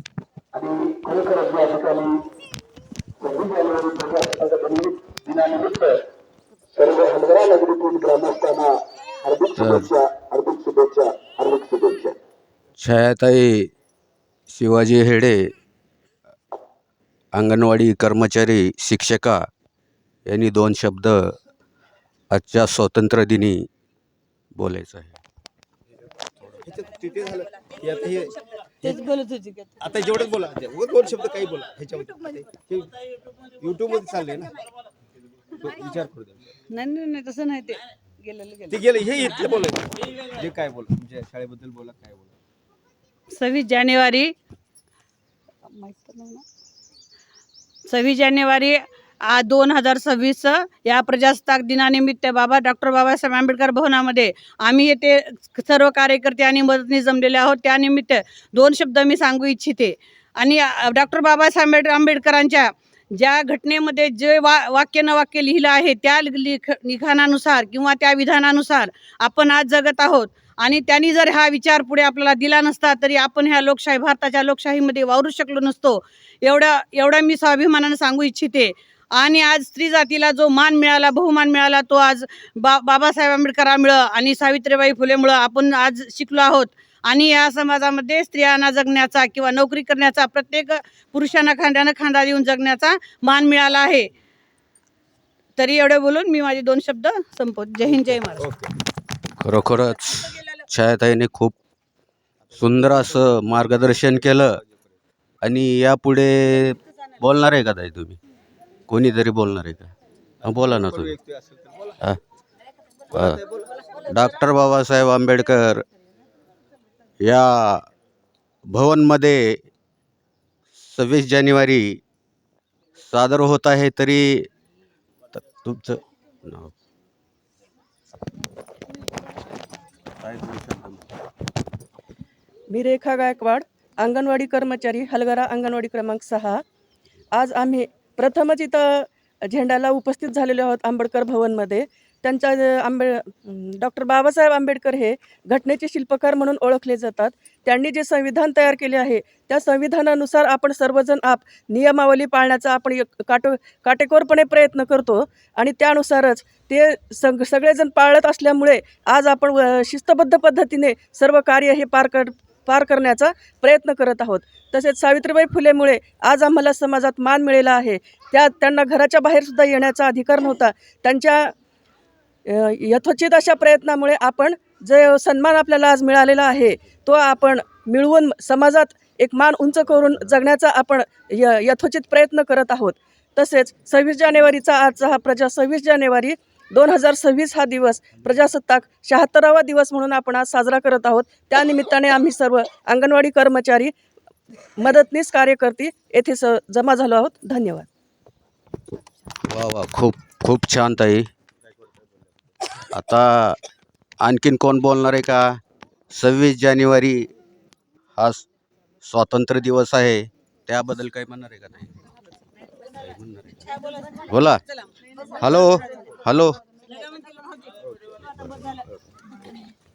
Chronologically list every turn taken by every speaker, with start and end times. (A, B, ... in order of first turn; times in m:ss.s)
0:00.5-0:02.2 A
0:03.2-0:06.0 A
0:06.7-0:12.2 A
0:09.6-0:09.9 B
0:12.8-0:13.7 B
0:14.5-0:15.5 B
0:17.3-0:19.5 B
0:20.3-0:21.4 B
0:22.3-0:23.7 B
0:24.6-0:25.2 B
0:26.5-0:29.0 C
0:28.8-0:29.8 D
0:29.8-0:32.9 C
0:33.6-0:34.6 C
0:35.5-0:36.6 C
0:36.7-0:39.4 D
0:38.7-0:42.3 C
0:43.3-0:44.3 D
0:45.7-0:46.4 D
0:47.9-1:34.1 D
1:35.6-1:38.5 D
1:38.4-1:38.7 C
1:39.4-1:41.5 B
1:42.5-1:44.5 B
1:45.4-1:48.2 B
1:48.9-1:49.9 B
1:50.4-1:51.1 B
1:50.4-1:52.0 C
1:53.1-1:53.4 B
1:53.2-1:53.8 C
1:54.0-1:55.8 B
1:57.2-1:57.8 B
1:58.7-1:59.6 B
2:00.8-2:02.0 B
2:03.1-2:04.5 B
2:05.3-2:06.7 B
2:10.2-2:11.0 B
2:12.7-2:16.6 E
2:17.3-2:51.5 E
2:52.4-3:13.9 E
3:14.8-3:17.9 E
3:19.4-3:21.2 B
3:22.8-3:23.6 B
3:24.2-3:25.6 B
3:26.1-3:27.3 B
3:28.2-3:28.4 B
3:29.0-3:32.0 B
3:32.8-3:34.6 B
3:35.2-3:36.6 B
3:36.9-3:37.8 D
3:38.5-3:38.8 D